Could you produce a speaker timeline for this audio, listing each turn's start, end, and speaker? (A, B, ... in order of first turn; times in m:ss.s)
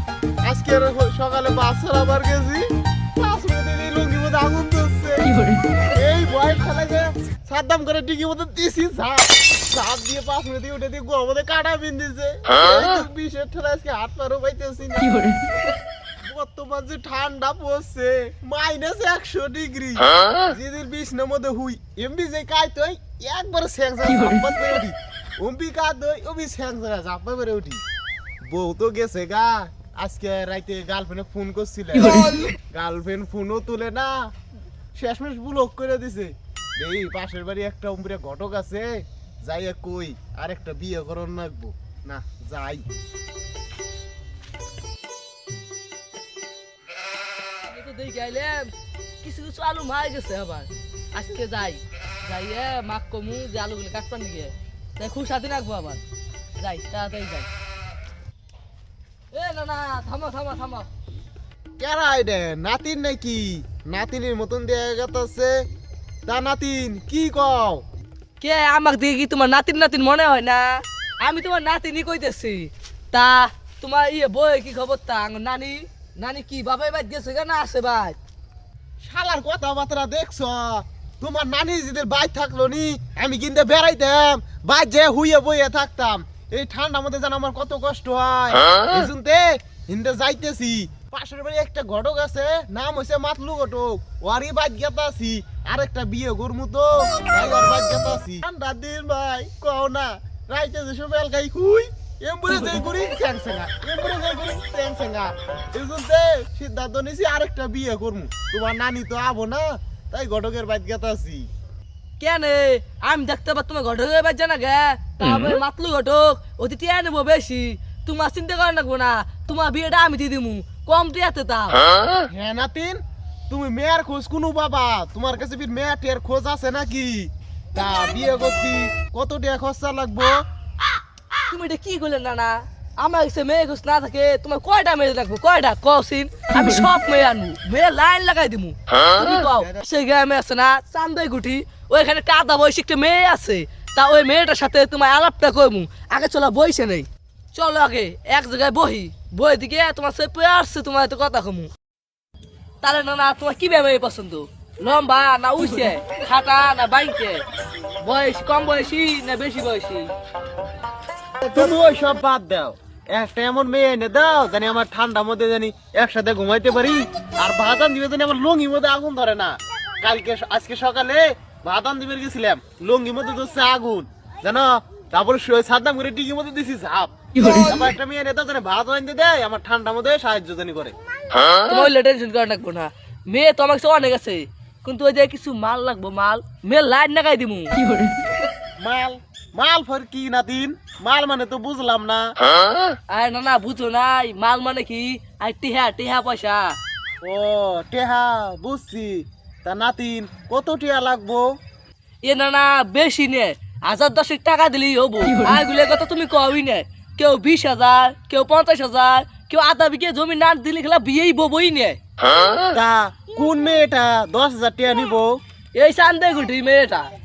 0:00.4-0:15.3 A
0:16.2-0:27.8 A
0:28.4-0:34.2 A
0:34.9-0:42.8 A
0:47.6-0:56.0 B
0:56.6-0:57.5 B
0:59.3-1:00.9 B
1:01.8-1:05.6 A
1:06.2-1:07.8 A
1:08.4-1:18.2 B
1:19.0-1:51.5 A
1:52.2-2:01.8 B
2:02.3-2:10.4 A
2:11.5-2:31.7 B
2:19.6-2:19.8 A
2:32.8-2:37.4 B
2:38.0-2:40.1 B
2:41.4-3:00.9 A
3:01.6-3:07.8 B
3:08.8-3:12.3 A
3:13.1-3:16.8 B
3:17.2-3:21.5 A
3:22.2-3:32.0 B
3:32.6-3:35.4 A
3:35.7-3:37.1 B